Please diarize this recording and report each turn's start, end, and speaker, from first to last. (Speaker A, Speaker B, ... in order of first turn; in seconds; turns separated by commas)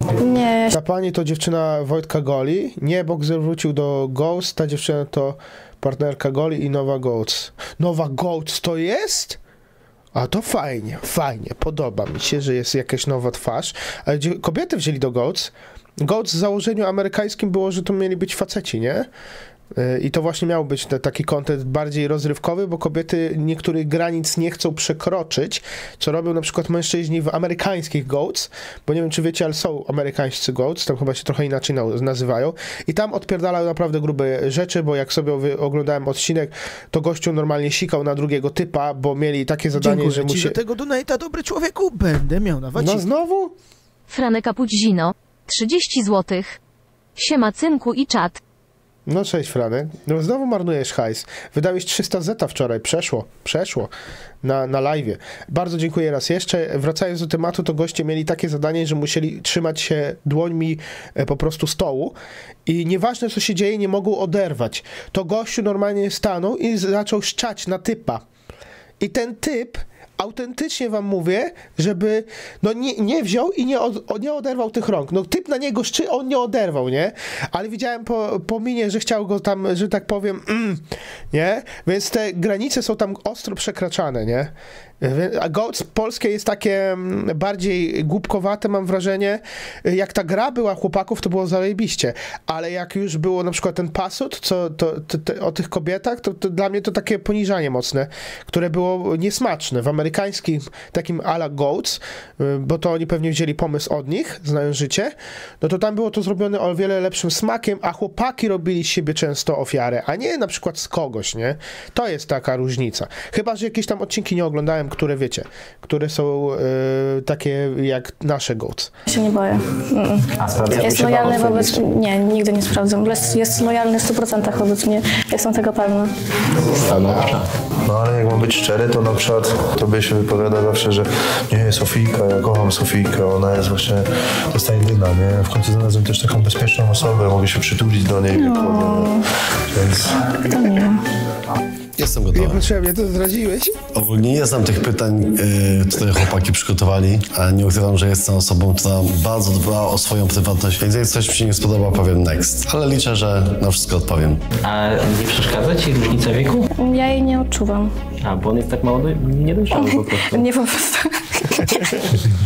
Speaker A: 0.2-0.8, Speaker B: 0.7-9.4, Speaker B: 10.1-19.1, Speaker B: 19.7-40.6, Speaker C: 39.7-43.0, Speaker B: 42.8-43.5, Speaker D: 44.1-46.6, Speaker D: 47.2-48.4, Speaker B: 49.1-53.9, Speaker B: 54.4-68.2, Speaker B: 69.0-118.9, Speaker A: 119.1-126.1, Speaker E: 120.4-121.8, Speaker B: 120.8-121.3, Speaker E: 126.8-127.5, Speaker F: 126.9-127.2, Speaker F: 127.8-140.2, Speaker A: 138.3-139.3, Speaker A: 140.4-141.0, Speaker G: 142.0-142.6, Speaker B: 142.3-143.8, Speaker G: 143.9-154.4, Speaker E: 154.6-156.7, Speaker A: 156.8-157.9, Speaker E: 158.2-160.5, Speaker A: 159.7-162.1